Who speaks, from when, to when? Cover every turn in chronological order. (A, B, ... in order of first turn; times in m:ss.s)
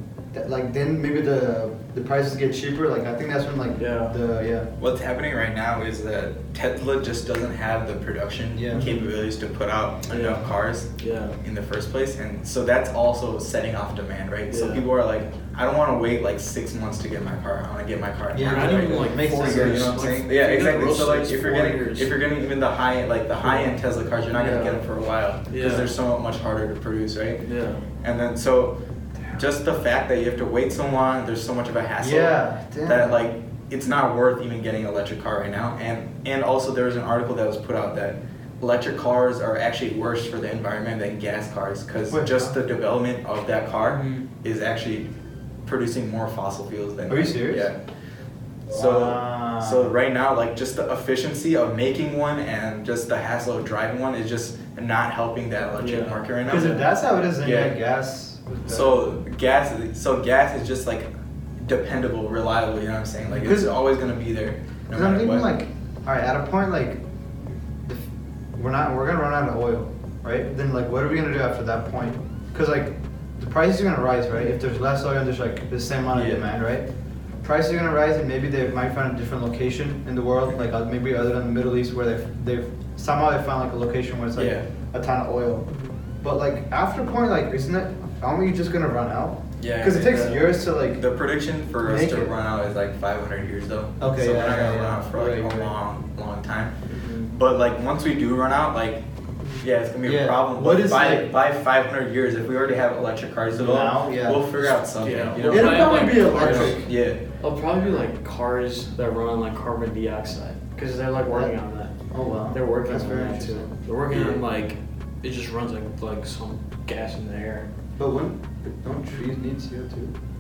0:00.3-0:04.7 A
0:03.8-0:04.1 B
0:04.8-0:10.9 C
0:08.5-0:08.9 A
0:08.7-0:09.1 B
0:10.1-0:11.4 B
0:11.4-0:27.4 C
0:14.5-0:14.9 B
0:18.3-0:20.1 A
0:18.4-0:22.2 B
0:23.4-0:23.7 B
0:24.3-0:24.8 B
0:24.3-0:24.8 A
0:25.5-0:25.9 B
0:27.4-0:27.8 B
0:28.0-0:28.8 C
0:29.3-0:45.1 C
0:32.0-0:33.2 A
0:42.1-0:42.5 A
0:43.8-0:44.3 B
0:45.6-0:47.8 C
0:47.1-0:47.7 A
0:48.7-0:56.8 C
0:48.7-0:50.0 A
0:55.8-0:56.9 B
0:56.5-0:59.1 A
0:57.4-0:57.7 C
0:58.6-1:01.1 C
1:01.6-1:05.6 C
1:03.3-1:03.8 A
1:04.9-1:07.0 A
1:08.6-1:16.9 A
1:16.1-1:16.4 C
1:17.4-1:25.7 A
1:24.4-1:24.7 C
1:26.2-1:31.0 A
1:29.6-1:36.8 C
1:31.8-1:32.3 A
1:34.0-1:35.7 A
1:36.9-1:37.3 B
1:37.3-1:39.0 C
1:39.6-1:47.2 C
1:40.0-1:41.3 A
1:43.5-1:44.8 A
1:45.0-1:52.0 B
1:45.5-1:46.9 A
1:51.3-1:51.5 A
1:52.1-1:54.4 A
1:52.5-1:57.7 B
1:54.1-1:54.4 C
1:58.0-2:00.1 A